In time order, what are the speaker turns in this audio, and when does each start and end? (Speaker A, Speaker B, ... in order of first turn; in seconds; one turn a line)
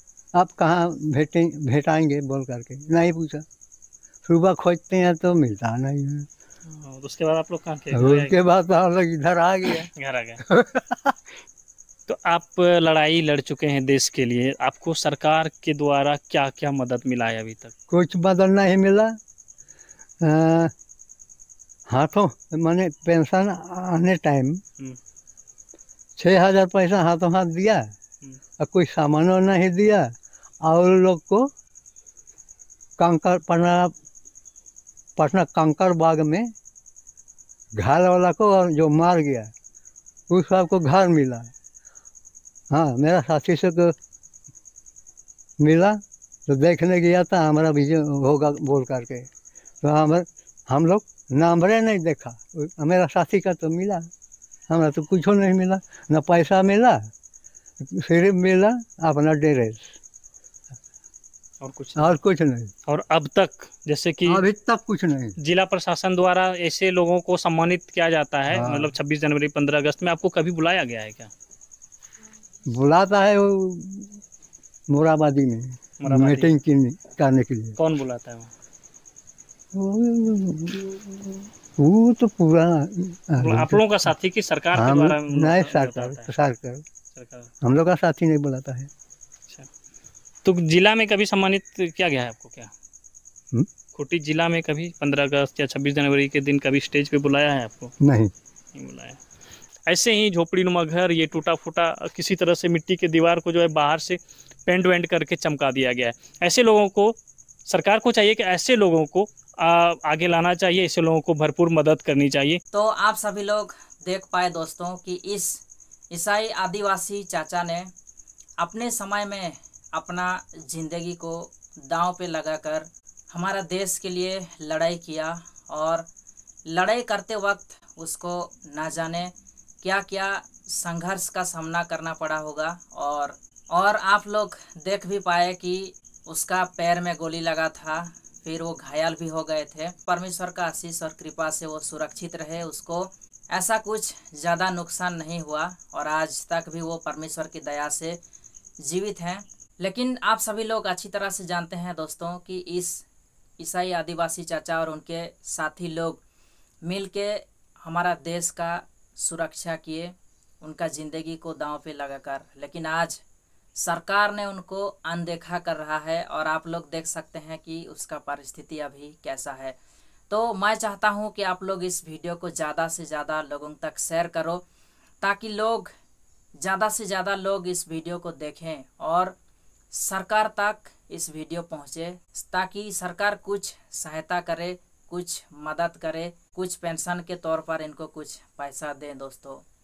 Speaker A: 0.3-3.4
Speaker A: 4.2-6.3
Speaker B: 6.7-8.4
Speaker A: 7.9-9.9
Speaker B: 9.9-10.4
Speaker A: 10.5-11.2
Speaker B: 12.1-17.7
Speaker A: 17.9-19.1
Speaker A: 20.2-20.7
Speaker A: 21.9-24.6
Speaker A: 26.2-27.9
Speaker A: 28.6-30.1
Speaker A: 30.6-31.5
Speaker A: 33.0-33.9
Speaker A: 35.2-36.5
Speaker A: 37.8-39.5
Speaker A: 40.3-41.5
Speaker A: 42.7-43.9
Speaker A: 45.6-49.3
Speaker A: 49.8-54.0
Speaker A: 54.7-57.0
Speaker A: 57.8-59.9
Speaker B: 61.6-62.2
Speaker A: 62.0-62.7
Speaker B: 62.9-64.4
Speaker A: 64.2-65.3
Speaker B: 65.4-71.3
Speaker A: 68.5-68.9
Speaker A: 72.7-74.2
Speaker A: 74.9-77.8
Speaker B: 76.0-76.5
Speaker B: 77.8-78.5
Speaker A: 79.7-83.8
Speaker B: 83.4-86.3
Speaker A: 84.7-86.8
Speaker B: 87.1-87.5
Speaker A: 87.6-88.9
Speaker B: 90.4-92.7
Speaker B: 93.9-97.9
Speaker A: 98.0-98.3
Speaker B: 98.7-99.2
Speaker B: 99.9-112.6
Speaker C: 112.7-117.9
Speaker C: 118.6-126.1
Speaker C: 126.7-148.2
Speaker C: 148.8-153.0
Speaker C: 153.6-156.2
Speaker C: 156.8-163.2
Speaker C: 163.8-169.8
Speaker C: 170.3-174.6
Speaker C: 175.2-175.9
Speaker C: 176.6-179.3
Speaker C: 179.9-189.6